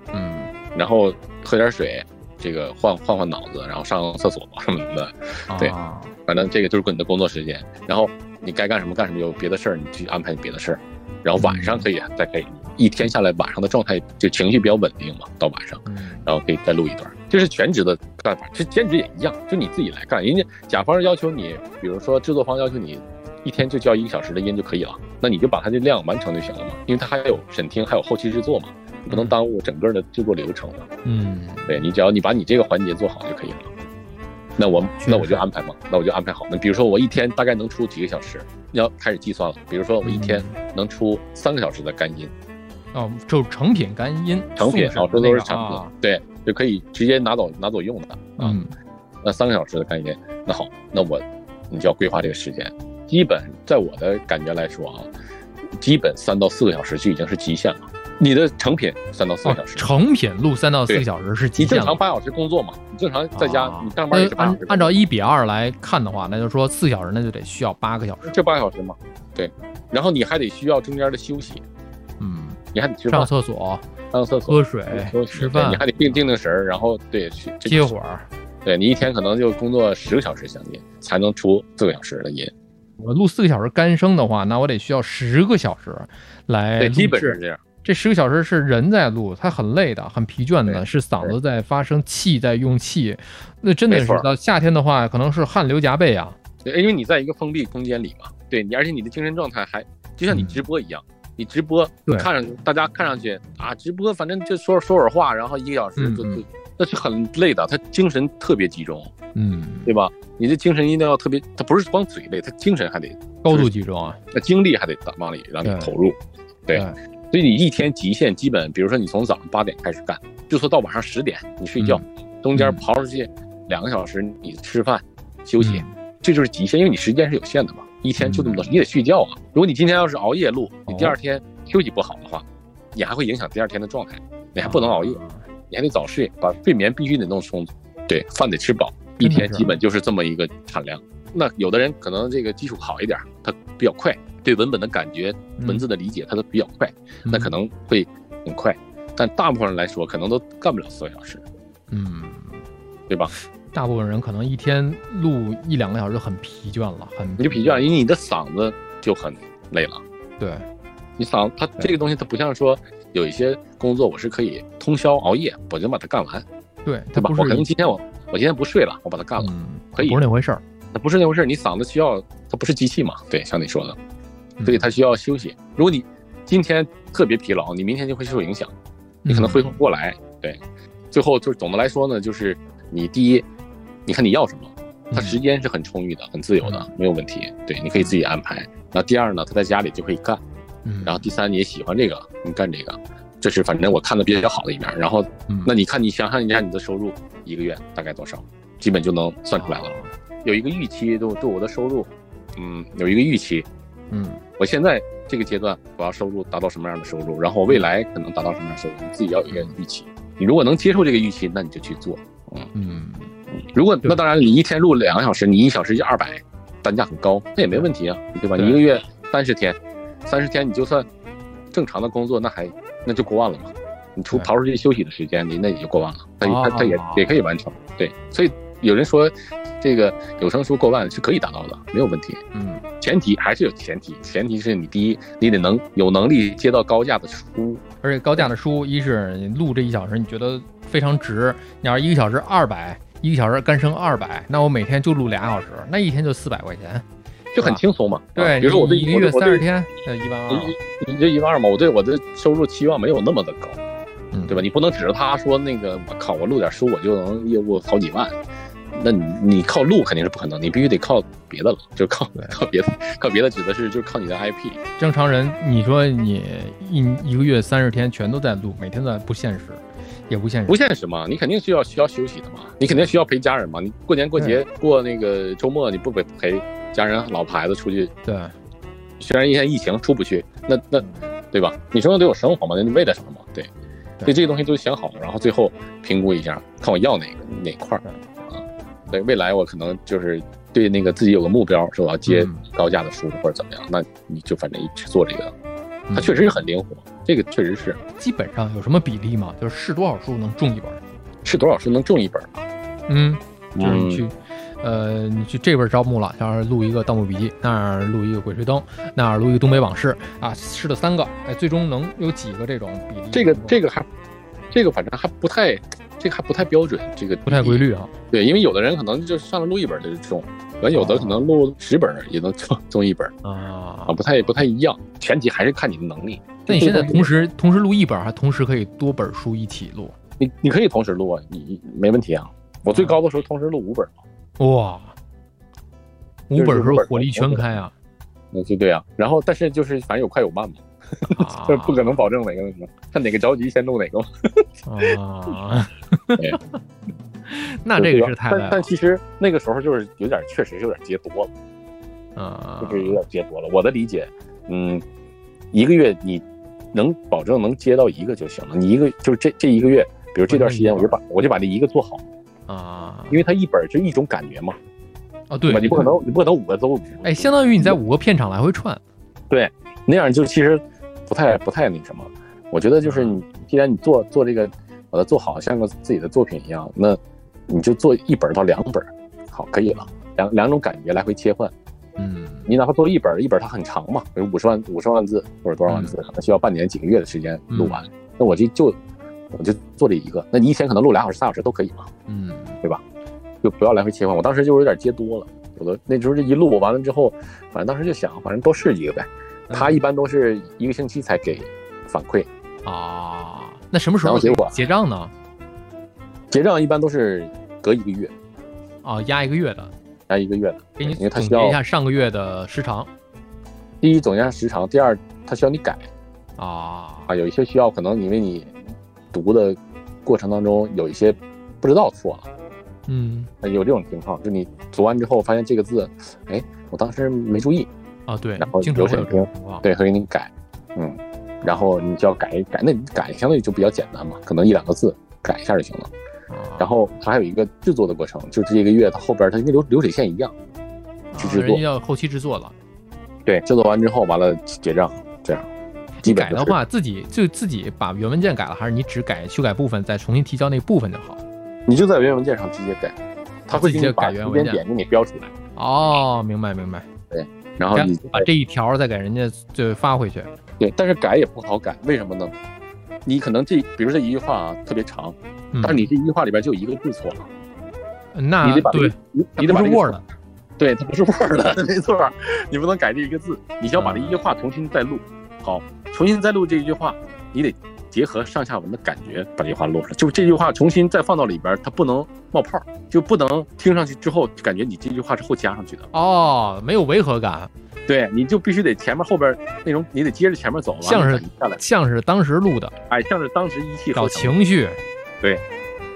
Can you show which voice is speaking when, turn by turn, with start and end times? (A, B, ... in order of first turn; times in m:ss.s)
0:00.1-0:00.5 A
0:00.7-0:05.8 B
0:05.5-0:06.1 A
0:06.2-0:30.9 B
0:11.4-0:11.9 A
0:15.8-0:16.2 A
0:29.1-0:29.4 A
0:31.0-0:31.8 A
0:31.7-0:33.7 B
0:34.6-0:42.3 B
0:35.0-0:35.4 A
0:40.0-0:40.6 A
0:42.9-0:45.9 A
0:44.6-0:48.6 B
0:48.4-0:48.7 A
0:49.2-0:55.1 B
0:55.8-0:59.8 B
0:59.4-1:02.0 A
1:01.6-1:05.0 B
1:03.3-1:08.3 A
1:08.2-1:11.6 B
1:12.2-1:12.6 A
1:12.7-1:13.3 B
1:13.1-1:13.8 A
1:14.1-1:17.9 B
1:14.5-1:16.3 A
1:17.6-1:18.3 A
1:18.6-1:22.5 B
1:23.0-1:36.4 A
1:26.8-1:27.6 B
1:30.7-1:31.3 B
1:33.9-1:34.3 B
1:36.6-1:49.1 B
1:40.3-1:40.6 A
1:46.0-1:46.4 A
1:49.3-1:49.9 A
1:49.8-1:53.7 B
1:53.4-1:54.2 A
1:54.3-2:15.2 B
1:55.6-1:55.9 A
1:56.7-1:57.0 A
2:01.8-2:02.8 A
2:05.6-2:06.0 A
2:08.2-2:08.7 A
2:10.9-2:11.2 A
2:14.6-2:15.4 A
2:15.7-2:31.4 B
2:19.2-2:19.8 A
2:25.6-2:25.9 A
2:27.3-2:27.5 A
2:31.9-2:32.6 A
2:33.7-2:37.8 A
2:37.4-2:40.0 B
2:40.4-2:40.6 A
2:41.2-2:46.4 B
2:46.8-2:47.7 A
2:47.2-2:50.2 B
2:49.4-2:50.6 A
2:50.9-2:54.0 B
2:54.6-2:54.9 A
2:54.6-2:58.7 B
2:59.2-2:59.8 A
2:59.3-3:00.6 B
3:01.1-3:03.5 B
3:04.0-3:10.4 B
3:05.1-3:05.4 A
3:10.8-3:11.3 A
3:11.0-3:19.9 B
3:15.5-3:15.7 A
3:19.5-3:20.1 A
3:20.4-3:23.7 B
3:24.1-3:24.4 A
3:24.6-3:32.7 B
3:29.5-3:29.7 A
3:32.7-3:33.3 A
3:33.6-3:41.1 B
3:37.6-3:37.9 A
3:38.6-3:38.8 A
3:41.7-3:52.4 B
3:46.4-3:47.3 A
3:52.5-3:52.8 A
3:53.0-3:57.8 B
3:58.0-4:07.0 A
4:07.5-4:09.6 B
4:07.6-4:07.8 A
4:08.4-4:10.7 A
4:10.5-4:13.8 B
4:14.3-4:14.7 A
4:14.5-4:18.4 B
4:19.0-4:24.8 B
4:25.0-4:30.8 A
4:30.7-4:38.1 B
4:34.4-4:34.6 A
4:38.2-4:38.5 A
4:39.2-4:43.7 B
4:41.0-4:41.2 A
4:44.2-4:55.5 B
4:52.2-4:52.6 A
4:56.1-4:56.4 A
4:56.1-4:58.0 B
4:58.2-5:01.0 A
5:01.4-5:02.6 B
5:03.1-5:13.8 A
5:03.8-5:04.2 B
5:13.3-5:14.1 B
5:14.7-5:23.3 B
5:17.4-5:18.1 A
5:20.9-5:21.5 A
5:23.4-5:24.2 A
5:24.1-5:27.3 B
5:26.7-5:30.2 A
5:30.4-5:34.1 B
5:32.9-5:33.2 A
5:34.6-5:35.1 A
5:36.5-5:37.9 A
5:36.6-5:37.7 B
5:38.5-5:45.1 B
5:41.3-5:42.2 A
5:44.9-5:46.8 A
5:47.4-5:48.9 A
5:48.0-5:51.5 B
5:52.4-5:53.2 A
5:52.8-5:55.0 B
5:55.7-6:02.2 B
6:00.5-6:01.2 A
6:02.7-6:03.4 A
6:03.3-6:04.8 B
6:05.5-6:06.1 A
6:05.7-6:08.0 B
6:07.2-6:09.0 A
6:09.5-6:21.7 B
6:13.0-6:13.4 A
6:22.2-6:22.7 A
6:22.7-6:29.0 B
6:25.9-6:26.2 A
6:27.7-6:28.0 A
6:29.5-6:32.1 B
6:32.3-6:32.8 A
6:33.6-6:42.5 B
6:39.7-6:40.0 A
6:42.8-6:45.3 A
6:44.2-6:44.8 B
6:46.5-6:48.3 B
6:49.0-6:49.9 A
6:50.3-6:51.8 B
6:51.0-6:53.1 A
6:54.0-6:56.0 B
6:56.6-6:57.3 A
6:57.3-6:58.7 B
6:59.3-7:02.5 B
7:03.1-7:03.5 A
7:03.6-7:07.9 B
7:08.3-7:09.8 A
7:08.6-7:16.1 B
7:16.5-7:16.9 A
7:16.8-7:20.5 B
7:21.3-7:22.8 A
7:21.4-7:21.8 B
7:23.5-7:25.7 B
7:26.2-7:31.4 A
7:26.2-7:26.8 B
7:31.9-7:33.2 B
7:33.7-7:35.5 B
7:33.7-7:34.8 A
7:35.8-7:37.1 A
7:37.3-7:38.5 B
7:37.9-7:40.5 A
7:40.8-7:42.5 B
7:43.2-7:47.5 B
7:45.7-7:46.1 A
7:48.3-7:50.2 A
7:48.6-7:50.2 B
7:50.8-8:06.1 B
7:54.0-7:54.4 A
8:06.1-8:07.7 A
8:08.1-8:11.8 B
8:11.0-8:12.9 A
8:13.1-8:14.6 B
8:14.1-8:15.0 A